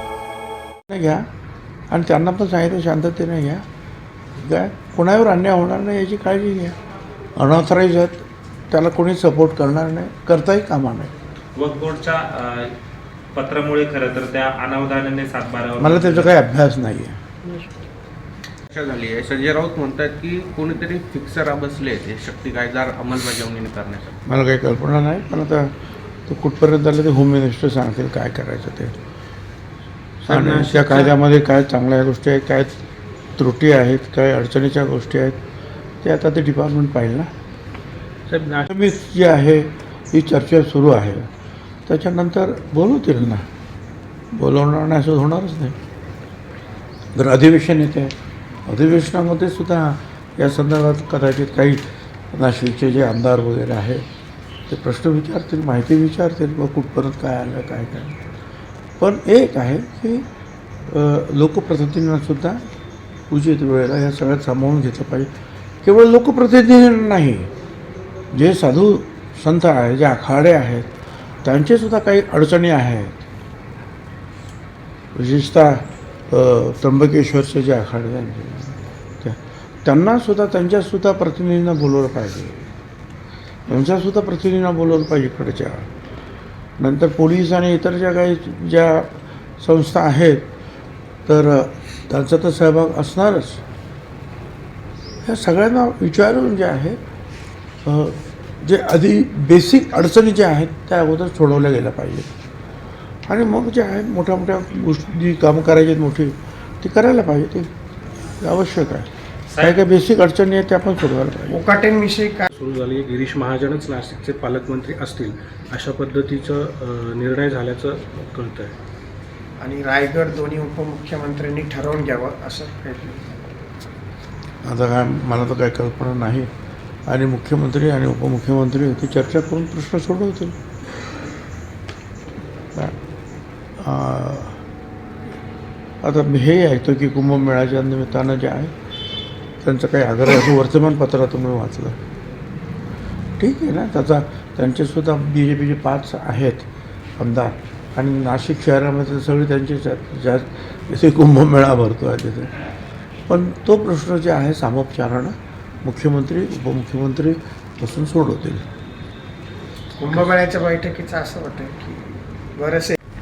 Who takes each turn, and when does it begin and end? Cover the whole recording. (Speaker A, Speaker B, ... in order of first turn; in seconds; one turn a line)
Speaker A: 0.9-1.2
Speaker A: 1.9-3.6
Speaker A: 4.4-6.8
Speaker A: 7.3-11.1
Speaker B: 11.5-12.7
Speaker B: 13.3-16.3
Speaker A: 15.8-17.2
Speaker C: 18.7-24.1
Speaker A: 24.2-25.7
Speaker A: 26.2-28.9
Speaker D: 30.2-31.1
Speaker A: 30.3-32.8
Speaker A: 33.4-35.4
Speaker A: 36.0-37.3
Speaker D: 38.3-38.7
Speaker A: 38.7-41.3
Speaker A: 41.9-43.5
Speaker A: 44.3-45.8
Speaker A: 47.1-48.1
Speaker A: 48.6-54.0
Speaker A: 54.7-58.2
Speaker A: 59.0-60.2
Speaker A: 60.8-62.6
Speaker A: 63.3-65.3
Speaker A: 65.8-67.5
Speaker A: 68.3-70.9
Speaker A: 71.4-73.2
Speaker A: 75.1-82.7
Speaker A: 83.7-85.9
Speaker A: 86.8-90.5
Speaker A: 91.3-93.6
Speaker A: 95.2-97.0
Speaker A: 97.8-102.3
Speaker A: 103.3-107.7
Speaker A: 108.4-111.6
Speaker B: 109.5-109.8
Speaker E: 111.5-112.4
Speaker D: 112.5-118.7
Speaker E: 119.6-123.4
Speaker A: 124.6-126.5
Speaker A: 127.0-130.6
Speaker A: 133.8-134.6
Speaker A: 136.0-138.7
Speaker A: 139.6-142.0
Speaker A: 143.4-146.7
Speaker A: 147.2-152.5
Speaker A: 153.3-158.7
Speaker E: 160.0-163.0